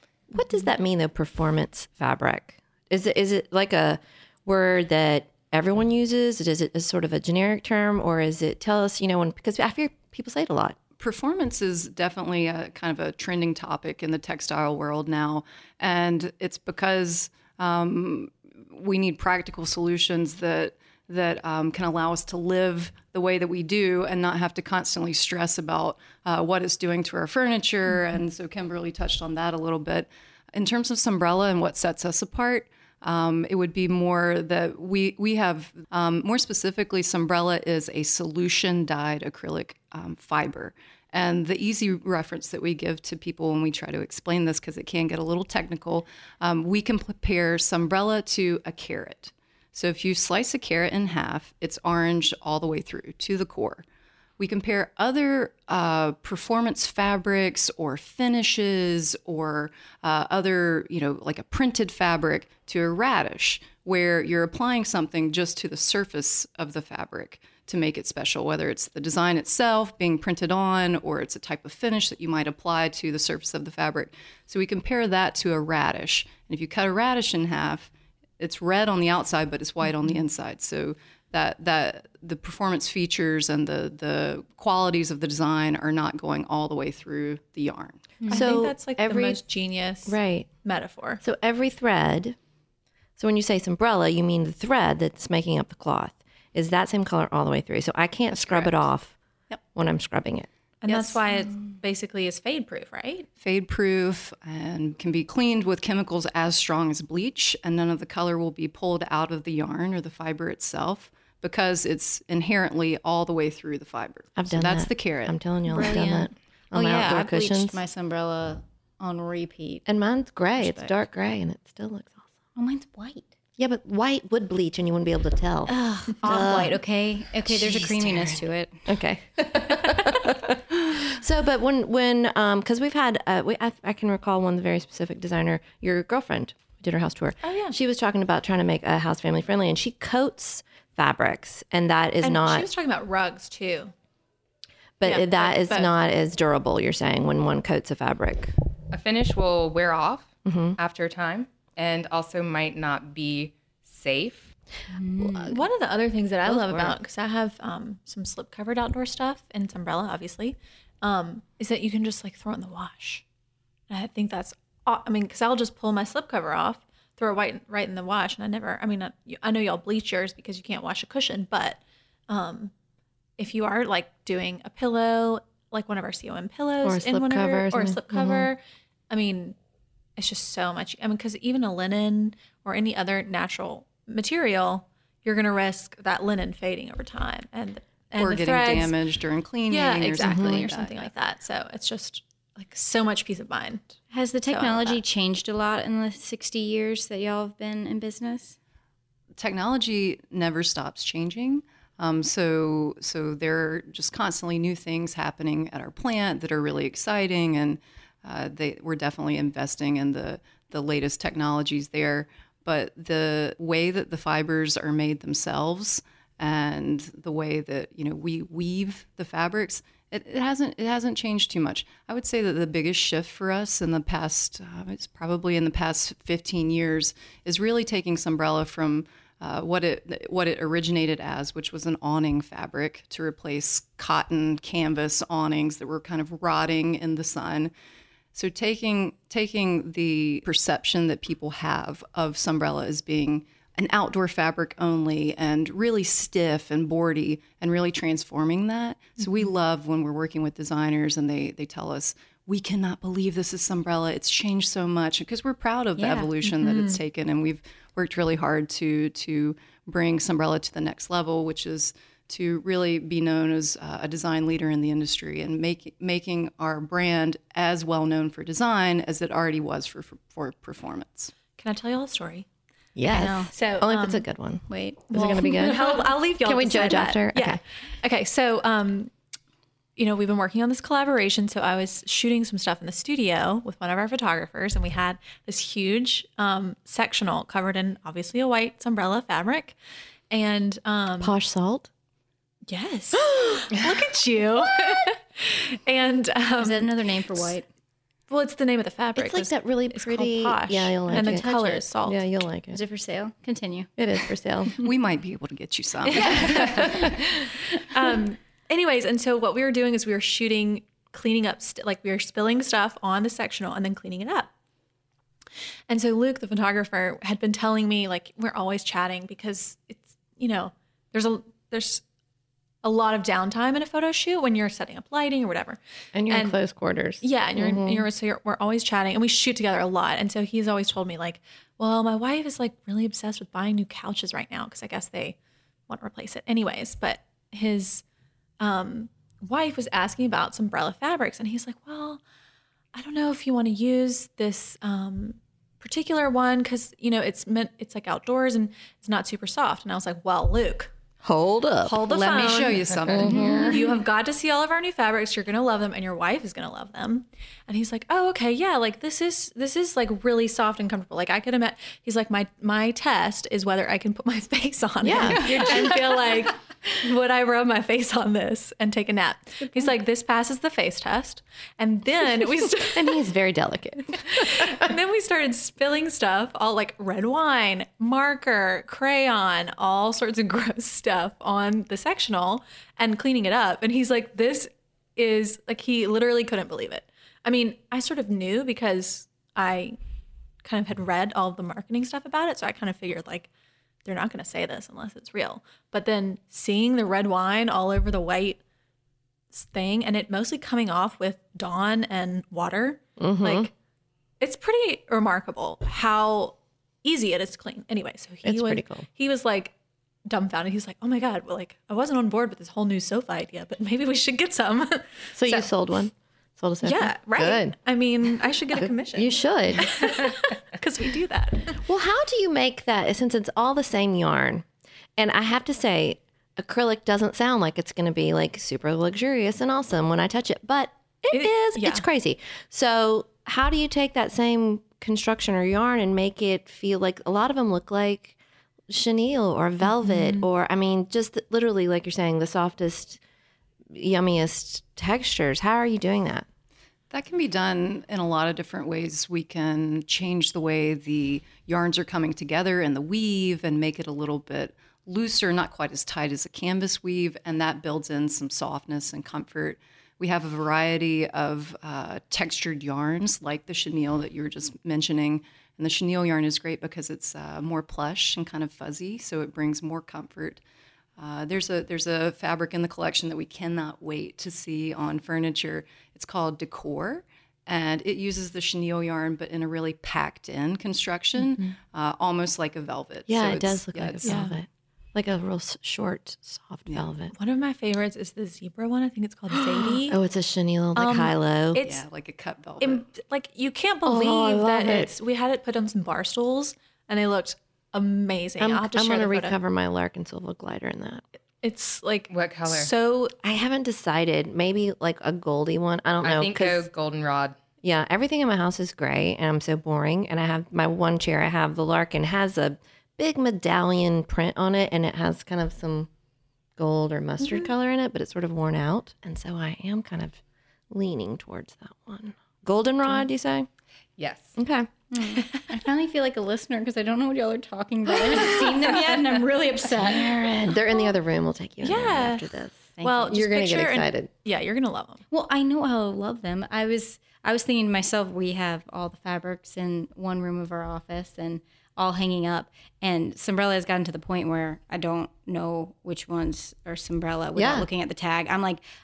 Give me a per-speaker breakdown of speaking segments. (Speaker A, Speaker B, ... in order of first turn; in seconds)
Speaker A: 0.3-10.8, 88.3-89.4, 90.1-90.5, 91.2-92.4, 93.2-99.2, 99.8-100.5, 114.4-117.8, 119.9-122.3, 123.6-126.8, 127.5-142.7, 145.0-148.5, 150.4-150.8, 155.2-155.5, 156.4-157.0, 176.8-178.5, 190.2-190.7, 273.0-277.6, 291.2-291.9, 293.2-293.7, 299.2-302.8, 304.0-304.8, 326.1-328.0, 351.2-352.0, 353.1-353.8, 365.0-366.0, 372.9-374.9, 403.2-403.7, 408.4-409.1, 415.4-417.8, 418.7-420.3, 421.9-424.6, 425.2-438.4, 438.9-443.2, 443.9-446.5, 483.3-487.3, 489.5-491.8, 494.1-495.1, 498.6-501.2, 503.4-506.9, 507.8-516.1, 516.8-520.4, 520.9-523.7, 524.6-524.9, 530.0-534.3, 547.5-547.9
Speaker B: 11.0-53.8, 54.4-88.2, 98.3-98.8, 103.4-115.4, 188.2-191.1, 199.4-237.7, 238.3-271.3, 304.8-307.0, 352.1-353.7, 447.1-470.6, 471.2-484.4, 491.8-493.1
Speaker C: 88.2-88.5, 115.7-119.8, 120.6-121.0, 122.6-123.3, 125.7-128.8, 154.9-155.5, 194.1-198.6, 256.0-256.3, 273.1-273.5, 274.7-276.0, 296.6-297.7, 302.7-303.9, 306.8-307.0, 353.2-353.8, 369.6-369.9, 525.1-530.4, 533.0-533.3, 535.3-548.8
Speaker D: 88.3-91.2, 100.8-103.3, 137.4-137.8, 142.2-143.9, 145.0-145.9, 155.4-163.2, 163.9-172.7, 173.4-179.6, 180.2-188.9, 189.7-194.0, 194.5-195.0, 256.4-257.0, 271.6-272.5, 273.5-274.2, 275.1-279.1, 280.0-289.8, 290.3-291.4, 292.7-297.5, 298.3-302.2, 306.1-307.1, 307.9-314.5, 315.9-322.0, 322.8-326.6, 327.2-335.4, 335.9-338.0, 338.6-342.2, 342.9-350.9, 351.8-373.2, 374.3-390.0, 390.6-393.5, 394.1-398.6, 399.5-403.7, 404.4-409.7, 410.3-415.6, 416.8-421.8, 431.3-432.0, 440.0-440.5, 484.2-484.6, 487.3-490.2, 490.9-492.0, 492.8-499.6, 501.6-503.4, 531.8-535.2
Speaker E: 148.9-154.5, 502.3-502.9, 506.2-507.6, 524.2-524.5